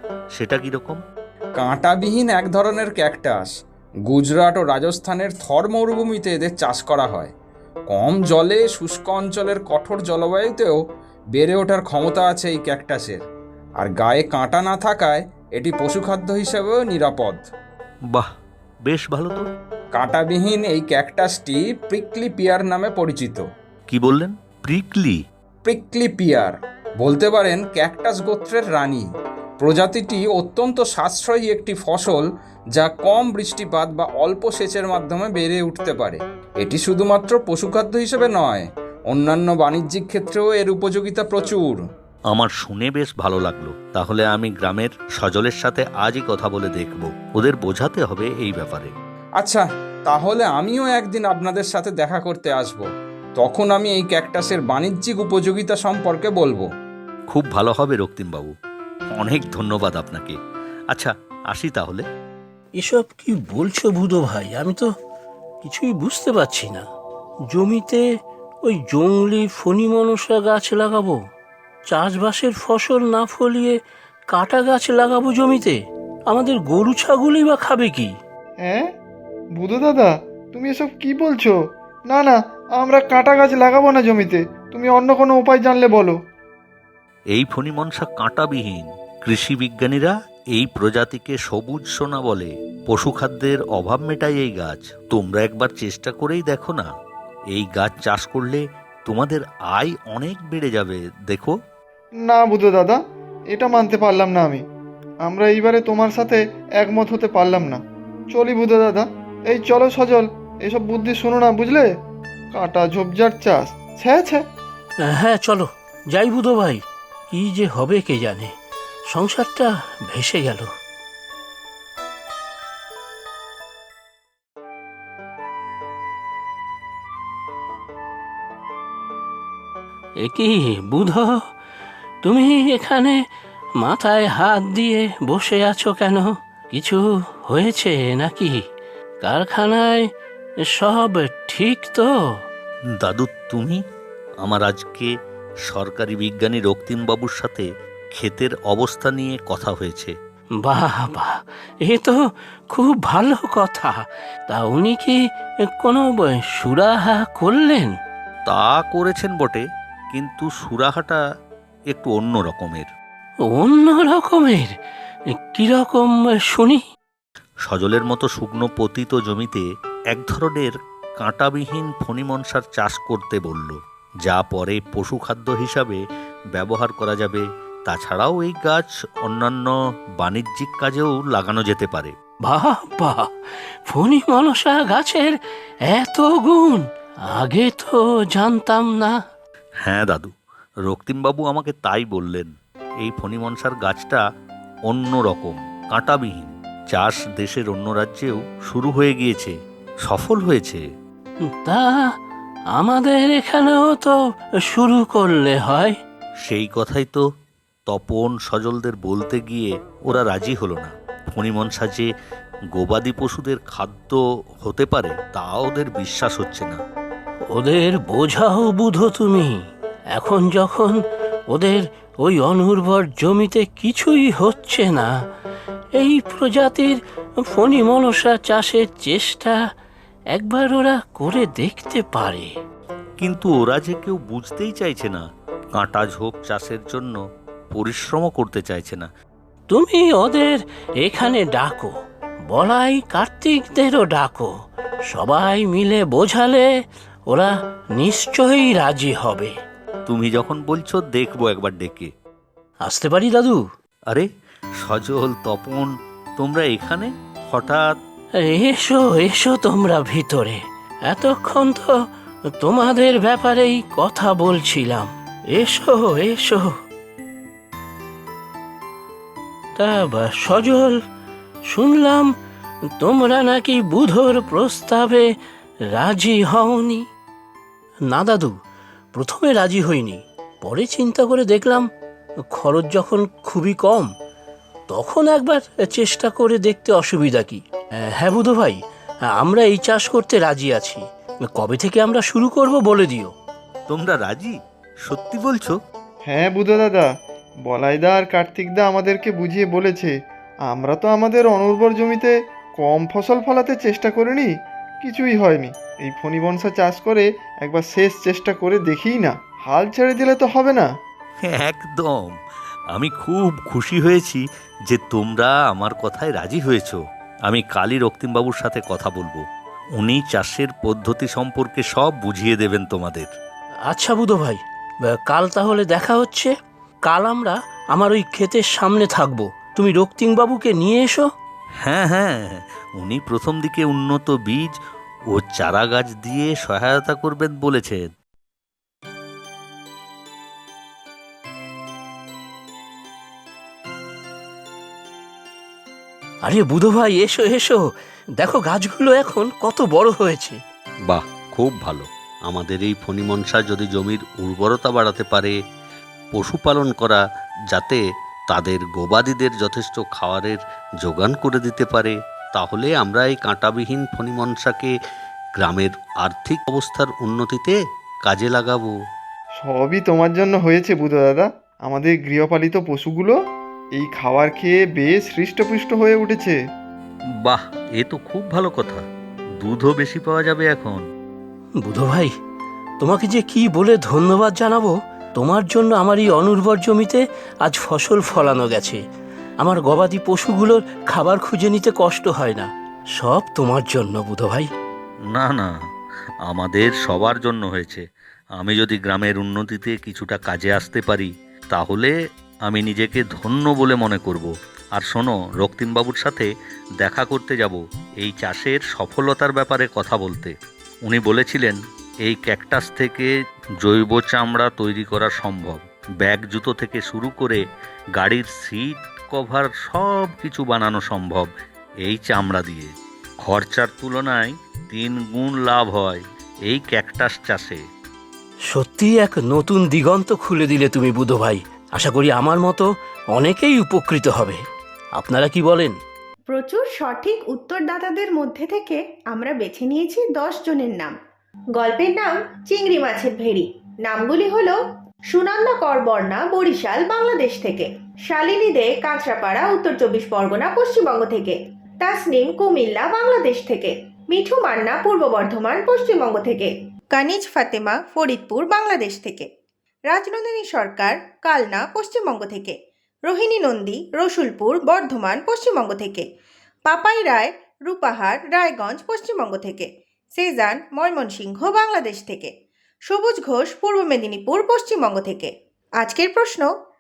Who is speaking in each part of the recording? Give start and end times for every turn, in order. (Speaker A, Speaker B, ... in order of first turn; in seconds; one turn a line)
Speaker A: 0.3-1.0
Speaker B: 1.6-3.5
Speaker B: 4.1-7.3
Speaker B: 7.9-10.8
Speaker B: 11.3-13.2
Speaker B: 13.8-17.4
Speaker A: 18.8-19.4
Speaker B: 19.9-23.4
Speaker A: 23.9-25.2
Speaker B: 25.6-29.0
Speaker B: 29.6-32.2
Speaker B: 32.8-41.8
Speaker A: 42.3-48.9
Speaker B: 49.4-52.8
Speaker B: 53.4-56.6
Speaker A: 57.3-58.5
Speaker A: 59.1-60.4
Speaker A: 60.9-62.0
Speaker C: 62.8-64.8
Speaker C: 65.6-66.8
Speaker C: 67.5-68.0
Speaker C: 68.6-71.2
Speaker C: 71.9-73.8
Speaker C: 74.3-75.8
Speaker C: 76.3-78.1
Speaker D: 79.6-81.5
Speaker D: 82.1-86.2
Speaker A: 87.3-96.9
Speaker A: 97.5-101.5
Speaker D: 102.2-103.0
Speaker D: 103.5-104.6
Speaker D: 105.3-107.8
Speaker D: 108.3-111.9
Speaker D: 112.5-114.4
Speaker C: 115.0-118.5
Speaker C: 119.1-120.7
Speaker C: 130.2-131.3
Speaker C: 132.2-133.2
Speaker C: 133.8-138.6
Speaker C: 139.2-140.0
Speaker C: 140.7-142.1
Speaker A: 143.0-143.8
Speaker A: 144.4-145.1
Speaker A: 145.7-150.1
Speaker C: 150.6-152.2
Speaker C: 152.7-155.2
Speaker C: 155.7-157.9
Speaker A: 158.5-161.2
Speaker A: 161.9-162.9
Speaker C: 163.5-164.7
Speaker C: 165.3-166.8
Speaker A: 167.7-176.0
Speaker A: 176.5-182.1
Speaker C: 182.4-183.3
Speaker C: 183.9-189.2
Speaker A: 189.8-190.3
Speaker A: 190.9-194.2
Speaker A: 194.9-199.5
Speaker A: 200.0-200.8
Speaker C: 201.5-202.0
Speaker C: 202.8-206.0
Speaker A: 206.4-207.2
Speaker A: 207.9-212.1
Speaker A: 212.8-216.8
Speaker C: 217.5-219.6
Speaker C: 220.1-221.0
Speaker C: 221.5-225.1
Speaker C: 226.0-229.5
Speaker C: 230.3-232.5
Speaker A: 233.2-235.2
Speaker A: 235.8-237.2
Speaker A: 237.7-239.1
Speaker C: 239.7-241.9
Speaker C: 242.5-244.5
Speaker C: 245.1-246.7
Speaker C: 247.3-249.5
Speaker A: 250.1-252.1
Speaker C: 252.8-253.6
Speaker A: 254.8-257.9
Speaker C: 258.4-261.9
Speaker C: 262.6-266.7
Speaker C: 269.8-271.0
Speaker C: 271.6-272.3
Speaker C: 273.0-275.2
Speaker C: 275.9-277.0
Speaker C: 278.1-278.5
Speaker C: 279.1-281.9
Speaker C: 282.5-284.1
Speaker C: 284.9-288.8
Speaker C: 289.4-291.0
Speaker C: 291.5-293.3
Speaker A: 293.9-295.8
Speaker D: 296.3-297.1
Speaker D: 297.7-300.1
Speaker D: 300.7-304.5
Speaker D: 305.0-310.9
Speaker A: 311.4-312.4
Speaker A: 312.9-319.4
Speaker A: 320.0-323.3
Speaker C: 323.9-326.5
Speaker C: 327.1-331.3
Speaker A: 331.8-334.7
Speaker A: 335.3-338.1
Speaker C: 346.5-347.8
Speaker C: 348.4-350.6
Speaker A: 351.1-355.5
Speaker A: 356.4-357.2
Speaker A: 357.7-364.9
Speaker A: 365.6-367.8
Speaker A: 368.3-368.9
Speaker D: 369.6-373.4
Speaker D: 374.0-376.6
Speaker A: 377.4-379.0
Speaker A: 379.6-381.0
Speaker C: 381.8-382.3
Speaker C: 383.0-389.0
Speaker C: 389.6-394.7
Speaker A: 395.3-395.7
Speaker A: 396.5-398.0
Speaker A: 398.6-402.1
Speaker A: 402.6-406.5
Speaker A: 407.0-413.3
Speaker A: 413.8-417.6
Speaker A: 418.1-421.5
Speaker A: 422.0-422.9
Speaker A: 423.4-427.8
Speaker C: 428.7-434.6
Speaker C: 435.1-436.0
Speaker E: 436.5-441.1
Speaker E: 441.8-444.8
Speaker E: 445.3-459.5
Speaker E: 460.1-466.2
Speaker E: 466.9-472.5
Speaker E: 473.1-476.7